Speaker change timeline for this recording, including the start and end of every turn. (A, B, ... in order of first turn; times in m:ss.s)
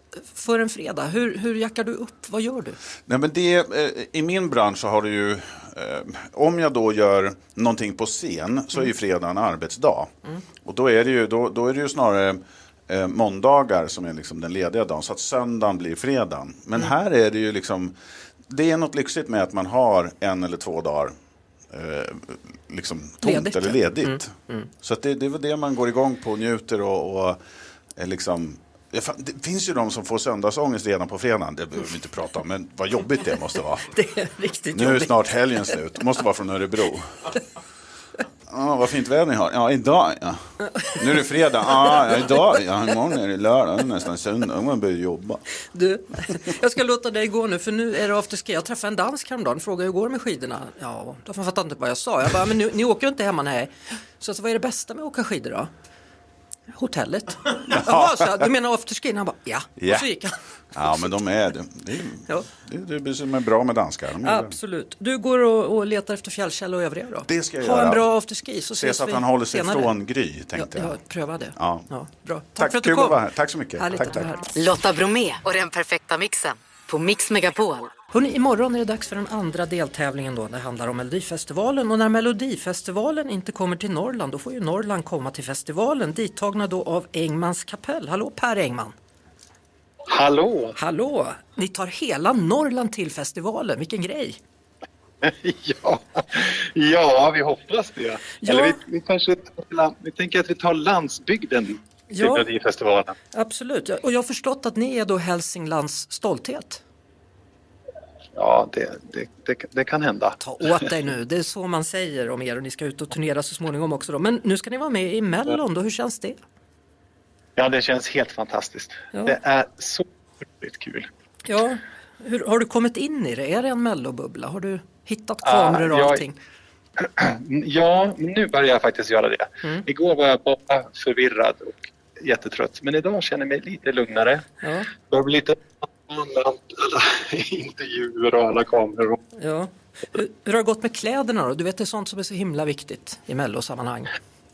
0:00.3-0:02.8 A
0:03.1-0:10.1 B
0:10.6-0:18.0 B
0:18.5-0:21.1 B
0:21.7-0:27.4 B
0:23.2-0:24.7 A
0:28.0-0:33.9 B
0:33.9-0:35.2 A
0:34.7-0:37.1 B
0:38.5-0:40.4 B
0:40.9-0:45.4 B
0:41.7-0:42.4 A
0:45.7-0:55.7 A
0:56.7-1:00.4 A
0:57.7-0:58.4 B
0:59.8-1:00.1 B
1:00.7-1:04.6 B
1:04.2-1:09.9 A
1:07.2-1:08.1 B
1:08.7-1:11.0 B
1:10.6-1:13.2 A
1:11.6-1:11.9 B
1:12.6-1:14.3 B
1:13.8-1:14.5 A
1:14.5-1:17.9 C
1:18.1-1:28.9 A
1:30.1-1:30.8 D
1:30.8-1:34.4 A
1:35.2-1:43.2 D
1:38.4-1:38.8 A
1:42.1-1:42.5 A
1:43.3-1:46.8 A
1:48.4-1:50.4 D
1:50.4-1:56.4 A
1:57.6-2:00.1 D
2:00.6-2:01.1 D
2:01.5-2:06.4 A
2:05.4-2:06.2 D
2:07.0-2:14.4 D
2:14.6-2:14.9 A
2:15.1-2:19.2 D
2:19.4-2:24.1 A